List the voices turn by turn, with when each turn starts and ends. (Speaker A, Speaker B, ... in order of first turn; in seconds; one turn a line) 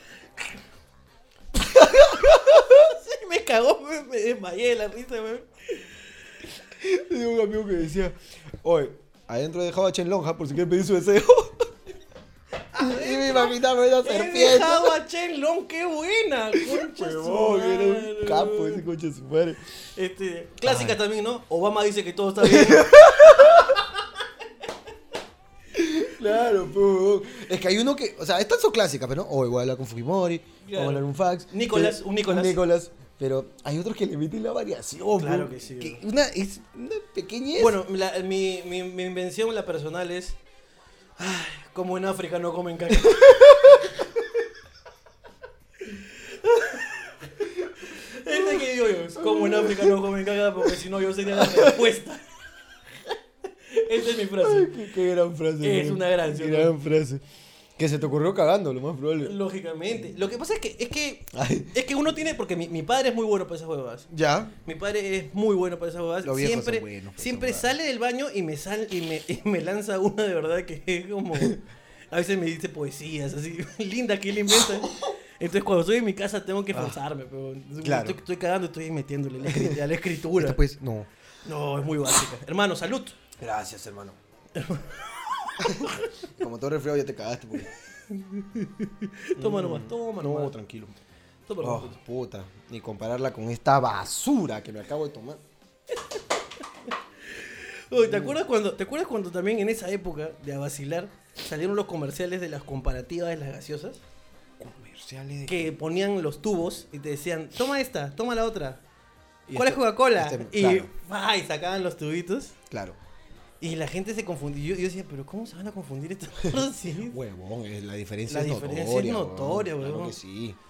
Speaker A: 1.6-2.8
Speaker B: 1.7-5.8
Speaker A: 6.7-11.7
Speaker B: 12.7-18.8
Speaker A: 12.7-15.0
Speaker A: 16.6-19.6
Speaker B: 19.9-24.0
Speaker A: 20.6-21.0
Speaker A: 22.4-23.8
Speaker A: 25.7-37.8
Speaker B: 30.6-32.6
Speaker B: 35.2-36.0
Speaker B: 37.5-40.4
Speaker B: 41.2-44.0
Speaker A: 43.0-43.8
Speaker B: 45.9-52.2
Speaker A: 48.2-50.0
Speaker A: 51.3-51.8
Speaker B: 53.7-54.7
Speaker A: 54.4-57.2
Speaker B: 55.6-56.7
Speaker A: 57.8-59.3
Speaker B: 59.2-64.1
Speaker A: 61.3-61.7
Speaker A: 64.1-64.5
Speaker B: 64.6-80.6
Speaker A: 66.2-67.7
Speaker A: 74.6-74.9
Speaker A: 76.7-77.0
Speaker A: 77.8-78.2
Speaker A: 79.4-79.8
Speaker A: 80.4-81.1
Speaker B: 81.4-83.2
Speaker A: 83.4-84.2
Speaker B: 84.5-86.2
Speaker A: 85.6-87.7
Speaker B: 88.1-90.5
Speaker A: 89.3-91.0
Speaker B: 91.5-92.0
Speaker A: 91.6-95.4
Speaker B: 95.9-96.2
Speaker B: 97.3-104.0
Speaker A: 97.9-98.4
Speaker A: 104.6-105.7
Speaker B: 105.5-108.8
Speaker A: 109.5-110.9
Speaker B: 109.5-112.5
Speaker A: 112.7-113.0
Speaker B: 113.6-117.2
Speaker A: 116.5-120.6
Speaker B: 118.3-120.1